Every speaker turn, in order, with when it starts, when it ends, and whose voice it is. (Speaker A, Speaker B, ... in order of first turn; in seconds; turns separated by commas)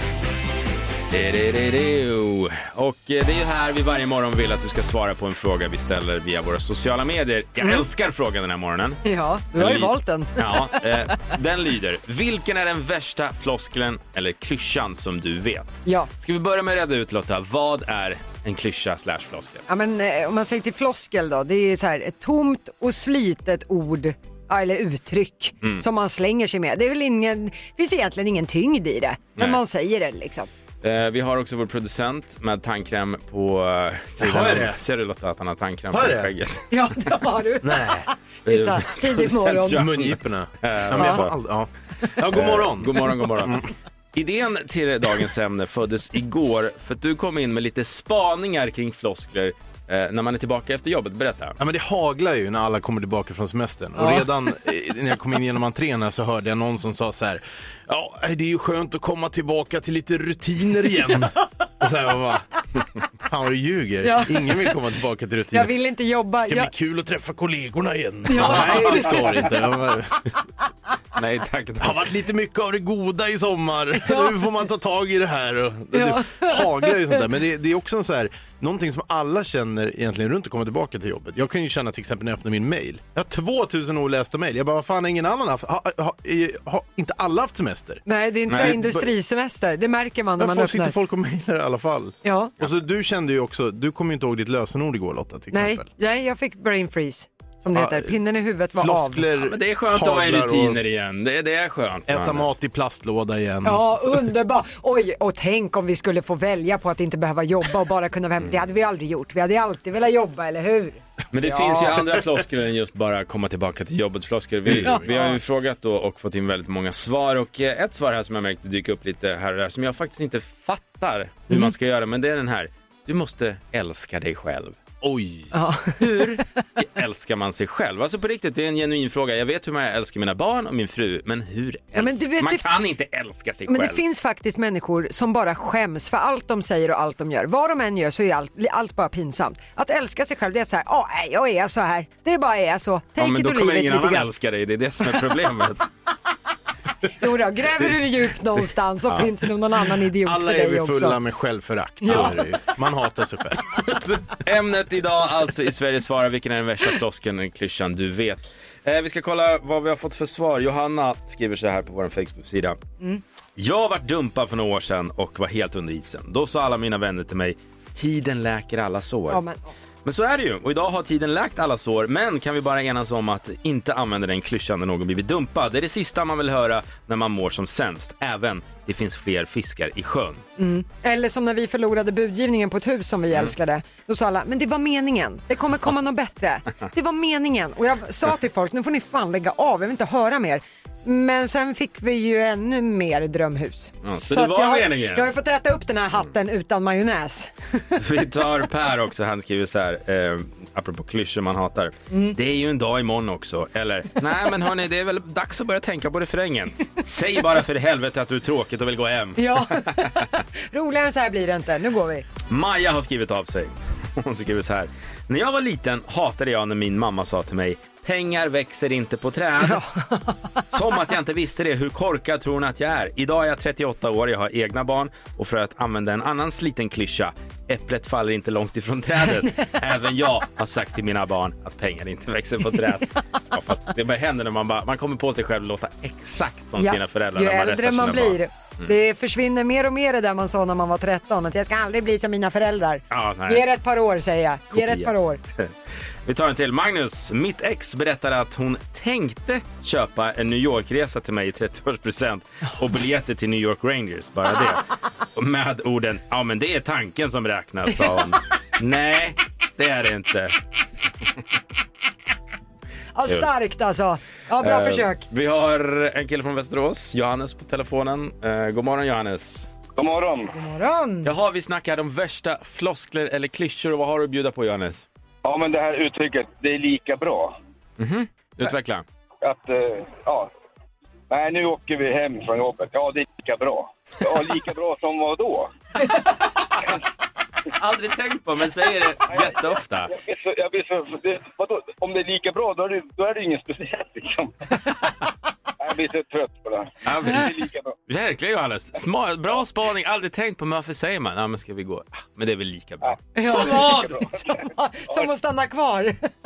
Speaker A: 1.1-9.0, Speaker B: 9.1-10.8, Speaker A: 9.6-19.6, Speaker B: 19.7-30.5, Speaker A: 30.8-36.7, Speaker C: 34.2-34.8, Speaker C: 35.9-36.3, Speaker B: 36.7-39.9, Speaker C: 37.6-38.1, Speaker A: 38.5-41.4, Speaker C: 39.7-43.7, Speaker B: 41.0-41.2, Speaker A: 42.2-51.6, Speaker C: 51.6-62.5, Speaker B: 54.0-54.3, Speaker C: 63.3-65.7, Speaker B: 64.0-64.6, Speaker B: 65.5-66.7, Speaker C: 66.4-70.3, Speaker B: 68.3-69.4, Speaker A: 68.4-69.1, Speaker A: 71.2-72.1, Speaker C: 71.8-89.1, Speaker B: 74.1-74.4, Speaker B: 75.9-76.9, Speaker B: 88.1-91.0, Speaker A: 88.5-88.8, Speaker C: 90.4-95.9, Speaker B: 92.2-92.5, Speaker B: 95.5-99.2, Speaker C: 97.7-98.2, Speaker C: 98.7-100.8, Speaker A: 99.4-102.5, Speaker C: 102.1-104.1, Speaker B: 103.7-112.2, Speaker A: 111.3-134.0, Speaker C: 114.7-115.0, Speaker B: 114.8-115.4, Speaker B: 121.5-121.7, Speaker B: 125.5-126.3, Speaker B: 132.0-132.7, Speaker B: 133.7-144.3, Speaker A: 143.2-145.9, Speaker B: 147.1-151.2, Speaker C: 150.2-154.4, Speaker B: 152.0-152.4, Speaker A: 152.1-152.4, Speaker A: 154.4-162.8, Speaker A: 163.6-169.4, Speaker B: 169.3-169.7, Speaker A: 170.1-180.4, Speaker B: 180.6-197.8, Speaker A: 194.0-195.3, Speaker A: 198.0-210.1, Speaker B: 202.1-202.4, Speaker B: 209.4-212.3, Speaker A: 212.5-219.8, Speaker B: 219.6-220.6, Speaker A: 220.7-238.9, Speaker B: 229.4-229.7, Speaker B: 236.8-245.4, Speaker A: 243.1-243.7, Speaker A: 244.7-245.7, Speaker A: 246.2-260.6, Speaker B: 263.1-265.2, Speaker A: 264.6-269.7, Speaker D: 270.0-270.5, Speaker B: 270.5-271.3, Speaker A: 271.2-275.1, Speaker D: 275.4-277.6, Speaker A: 278.0-279.1, Speaker D: 279.4-280.5, Speaker D: 281.3-285.7, Speaker A: 287.8-290.1, Speaker D: 289.3-294.6, Speaker D: 295.8-297.9, Speaker A: 297.0-297.6, Speaker A: 298.1-304.3, Speaker D: 303.0-305.3, Speaker B: 303.4-306.3